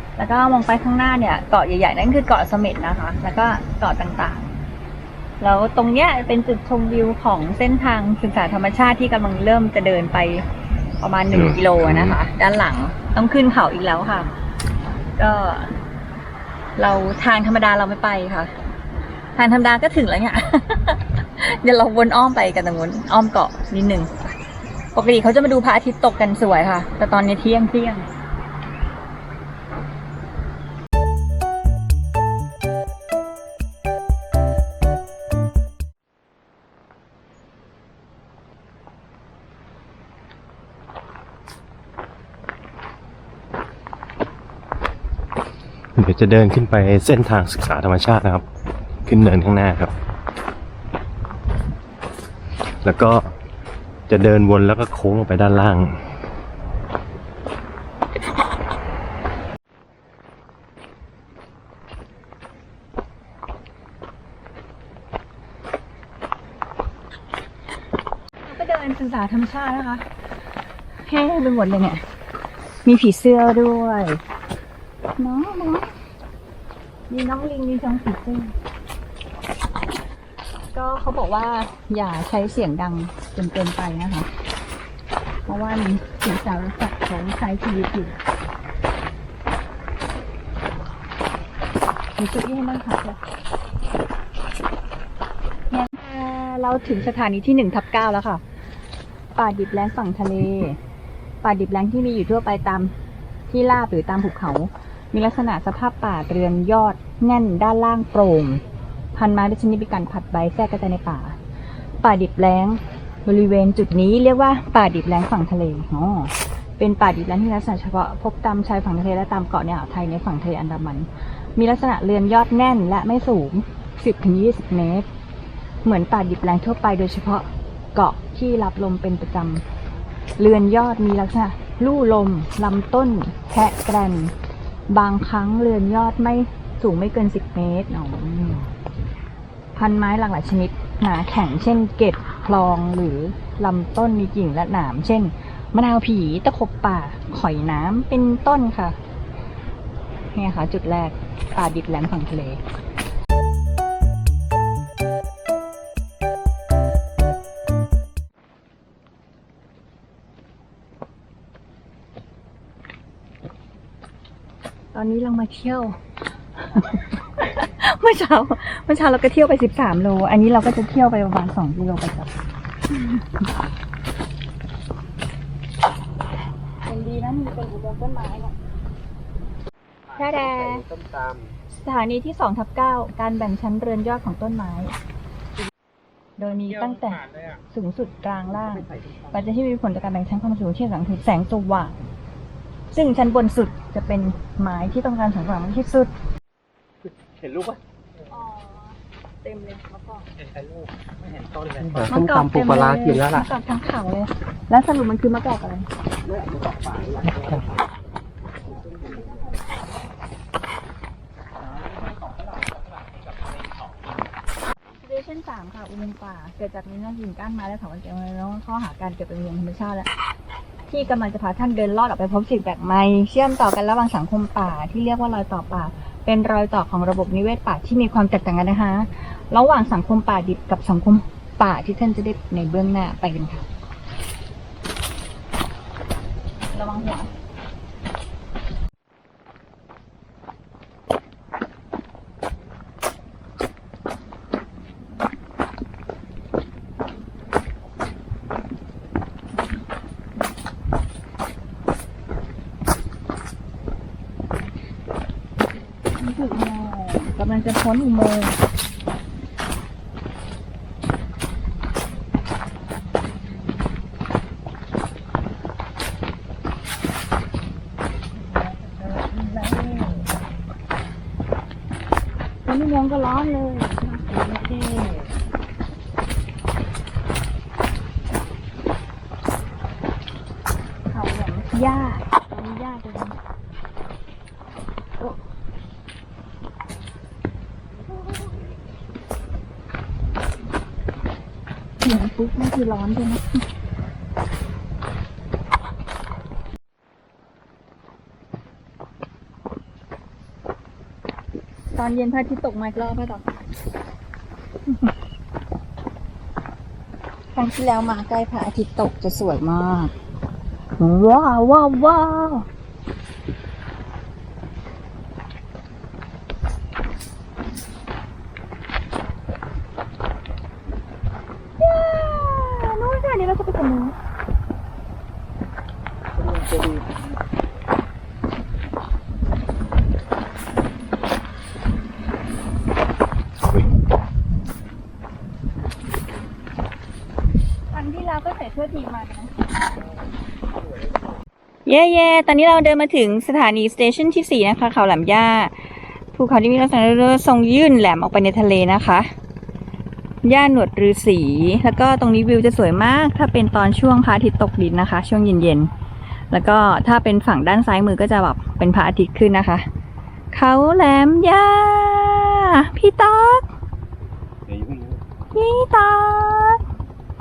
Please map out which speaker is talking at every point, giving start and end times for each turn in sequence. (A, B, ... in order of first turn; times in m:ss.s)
0:00.2-0:04.6 A
0:05.4-0:10.4 A
0:11.0-0:14.3 A
0:11.3-0:12.2 B
0:15.2-0:15.7 A
0:16.8-0:18.5 A
0:19.4-0:24.1 A
0:24.9-0:28.1 A
0:46.0-0:48.4 B
0:49.1-0:49.9 B
0:52.8-0:53.3 B
0:54.1-0:56.0 B
1:08.4-1:10.1 A
1:11.0-1:12.0 A
1:12.8-1:14.2 A
1:15.2-1:15.9 A
1:17.1-1:18.5 A
1:20.7-1:24.3 A
1:25.5-1:28.2 A
1:32.2-1:33.2 A
1:35.7-1:38.4 A
1:39.4-1:40.8 A
1:41.4-1:42.9 A
1:43.5-1:48.6 A
1:49.2-1:51.4 A
1:52.0-2:05.1 A
2:05.8-2:09.6 A
2:10.4-2:14.3 A
2:14.9-2:18.7 A
2:19.8-2:29.0 A
2:30.4-2:32.6 A
2:44.9-2:46.0 A
2:46.7-2:52.3 A
2:52.9-2:53.2 A
2:56.8-2:58.5 A
3:00.1-3:01.6 C
3:00.2-3:00.8 A
3:01.8-3:05.0 A
3:06.4-3:12.0 A
3:08.6-3:09.5 C
3:12.9-3:16.1 A
3:17.2-3:17.8 C
3:18.3-3:20.3 A
3:20.6-3:23.5 C
3:22.1-3:25.9 A
3:26.2-3:27.7 C
3:28.8-3:29.4 C
3:32.0-3:33.7 C
3:35.0-3:40.1 A
3:40.9-3:53.6 A
3:56.7-3:57.3 A
4:16.2-4:18.6 A
4:28.8-4:30.2 C
4:32.7-4:34.2 A
4:34.3-4:35.3 C
4:41.1-4:43.4 A
4:52.0-4:53.6 A
5:02.0-5:03.4 A
5:07.6-5:10.1 A
5:11.0-5:12.7 A
5:21.8-5:24.2 A
5:26.4-5:27.1 C
5:37.9-5:39.5 A
5:41.9-5:45.8 A
5:46.3-5:49.3 A
5:50.4-5:55.9 A
5:56.5-5:59.9 A
6:00.5-6:03.7 A
6:04.7-6:05.2 C
6:05.5-6:06.8 A